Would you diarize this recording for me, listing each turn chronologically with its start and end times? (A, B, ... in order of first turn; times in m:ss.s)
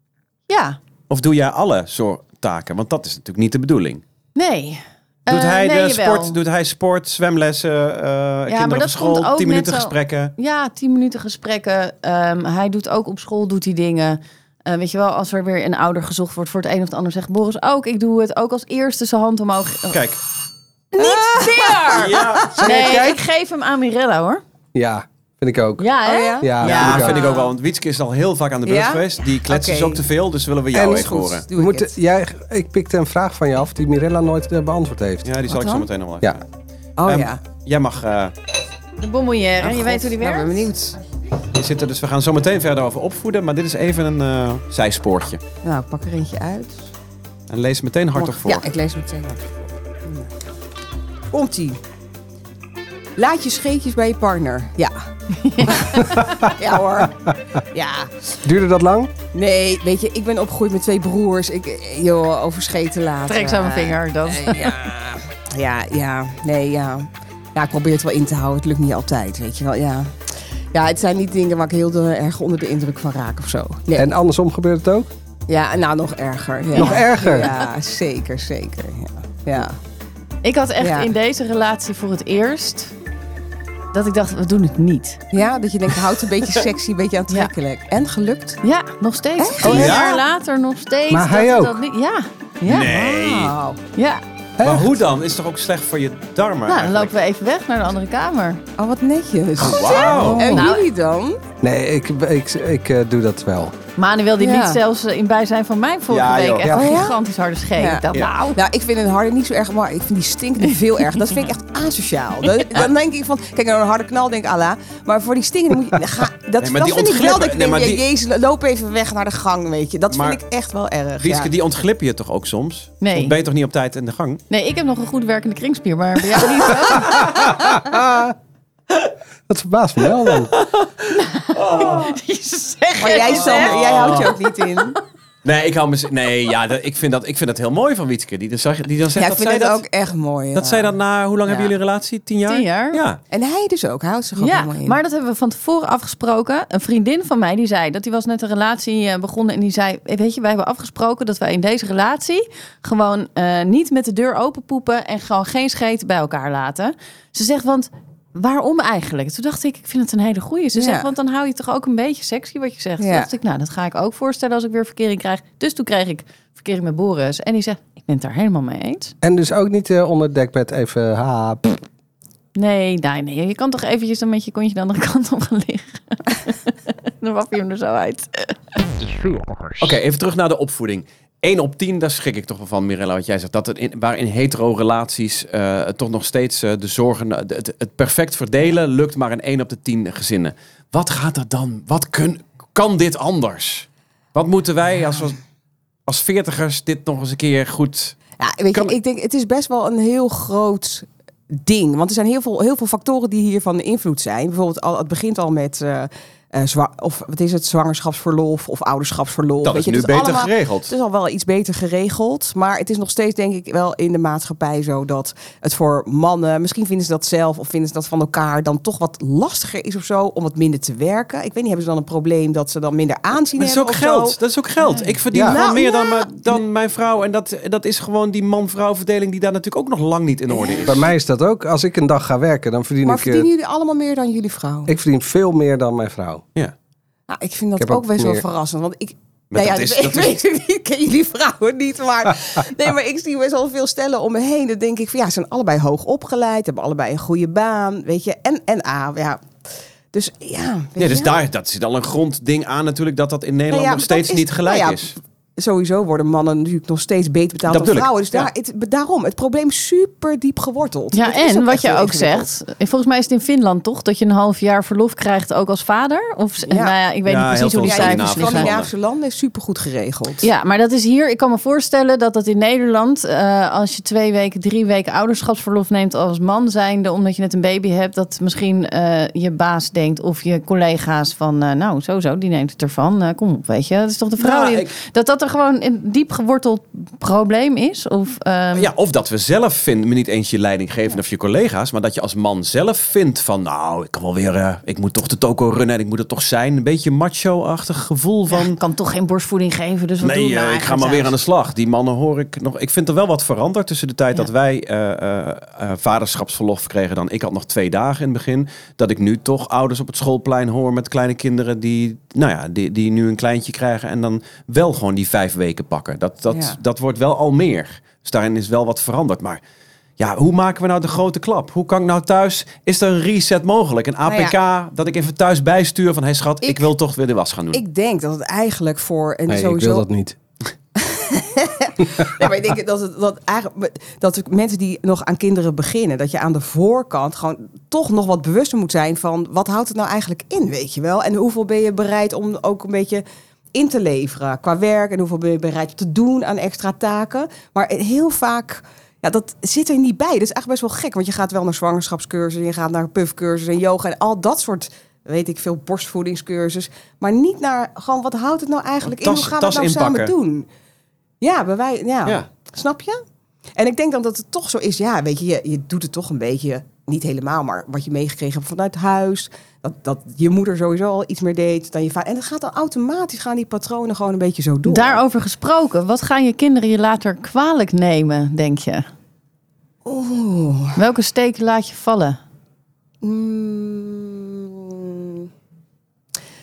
0:00.5-0:00.8 A
0:01.1-0:04.0 B
0:04.3-0:06.4 A
0:05.3-0:10.3 B
0:08.5-0:20.0 A
0:19.9-0:20.2 B
0:20.9-0:22.7 C
0:20.9-0:24.4 A
0:21.9-0:22.7 B
0:22.6-0:23.2 D
0:24.7-0:25.8 D
0:25.8-0:27.5 A
0:26.0-0:27.4 C
0:26.4-0:27.2 D
0:26.6-0:31.4 B
0:28.6-0:30.0 C
0:30.7-0:35.4 D
0:30.8-0:31.9 C
0:35.2-0:36.4 B
0:35.5-0:35.9 C
0:37.0-0:37.4 C
0:37.0-0:38.3 B
0:39.0-0:40.7 A
0:39.6-0:41.0 C
0:41.5-0:45.4 B
0:45.6-0:46.8 C
0:47.5-0:48.6 B
0:48.2-0:50.3 C
0:51.3-0:51.8 C
0:53.2-0:55.0 C
0:55.3-0:56.2 A
0:55.6-0:58.3 C
0:56.2-0:56.5 D
0:58.4-0:59.1 D
0:59.3-1:14.1 C
1:03.3-1:04.7 A
1:14.0-1:15.1 D
1:15.5-1:19.8 C
1:16.7-1:17.6 D
1:20.4-1:22.9 A
1:20.8-1:21.1 C
1:23.9-1:25.2 A
1:25.3-1:28.6 C
1:28.6-1:32.8 A
1:29.4-1:30.0 C
1:29.6-1:30.2 B
1:31.1-1:31.8 D
1:32.6-1:33.8 C
1:32.6-1:33.5 B
1:33.9-1:34.2 A
1:34.6-1:35.0 D
1:34.6-1:37.1 B
1:36.7-1:38.6 A
1:38.8-1:41.4 C
1:39.6-1:40.6 B
1:39.7-1:40.9 A
1:41.6-1:43.7 D
1:44.0-1:48.6 A
1:44.4-1:44.8 C
1:46.1-1:46.7 B
1:46.6-1:46.9 D
1:46.7-1:47.2 C
1:47.8-2:01.5 C
1:56.6-1:58.0 B
2:00.1-2:00.4 B
2:01.2-2:04.4 B
2:03.0-2:03.3 A
2:04.5-2:07.3 A
2:06.3-2:07.2 C
2:07.0-2:08.3 D
2:09.5-2:10.5 D
2:10.6-2:10.9 B
2:11.1-2:14.2 A
2:11.5-2:12.2 B
2:13.0-2:15.0 C
2:13.2-2:14.4 B
2:15.4-2:19.8 B
2:19.2-2:21.7 C
2:20.5-2:23.2 B
2:22.5-2:23.0 A
2:23.3-2:25.0 C
2:24.4-2:49.1 A
2:40.8-2:41.1 C
2:43.0-2:43.3 C
2:49.2-2:51.8 D
2:52.5-2:58.6 A
2:59.8-3:15.4 B
3:16.1-3:18.2 B
3:18.4-3:44.4 C
3:29.6-3:30.9 B
3:43.6-3:51.1 B
3:44.9-3:45.1 A
3:45.3-3:45.6 D
3:45.3-3:46.6 C
3:50.5-3:51.0 C
3:50.8-3:53.5 D
3:53.0-3:54.9 C
3:54.9-3:56.4 D
3:57.3-4:09.4 C
3:57.8-3:58.4 D
3:59.5-4:00.4 B
4:10.1-4:11.4 C
4:11.0-4:15.1 B
4:13.7-4:22.5 C
4:17.7-4:18.5 B
4:21.1-4:28.7 A
4:26.7-4:26.9 C
4:27.2-4:28.9 B
4:27.8-4:30.4 C
4:30.4-4:48.9 A
4:44.4-4:44.9 B
4:48.7-4:58.8 B
4:58.5-5:01.3 A
5:00.2-5:19.6 B
5:16.5-5:16.8 C
5:20.2-5:27.8 B
5:24.2-5:24.5 C
5:27.7-5:30.0 C
5:29.5-5:30.4 D
5:30.9-6:00.7 C
5:59.2-6:00.3 B
6:01.4-6:03.2 C
6:03.8-6:15.2 C
6:14.8-6:19.0 A
6:20.0-6:21.0 C
6:21.0-6:22.4 A
6:23.2-6:25.5 C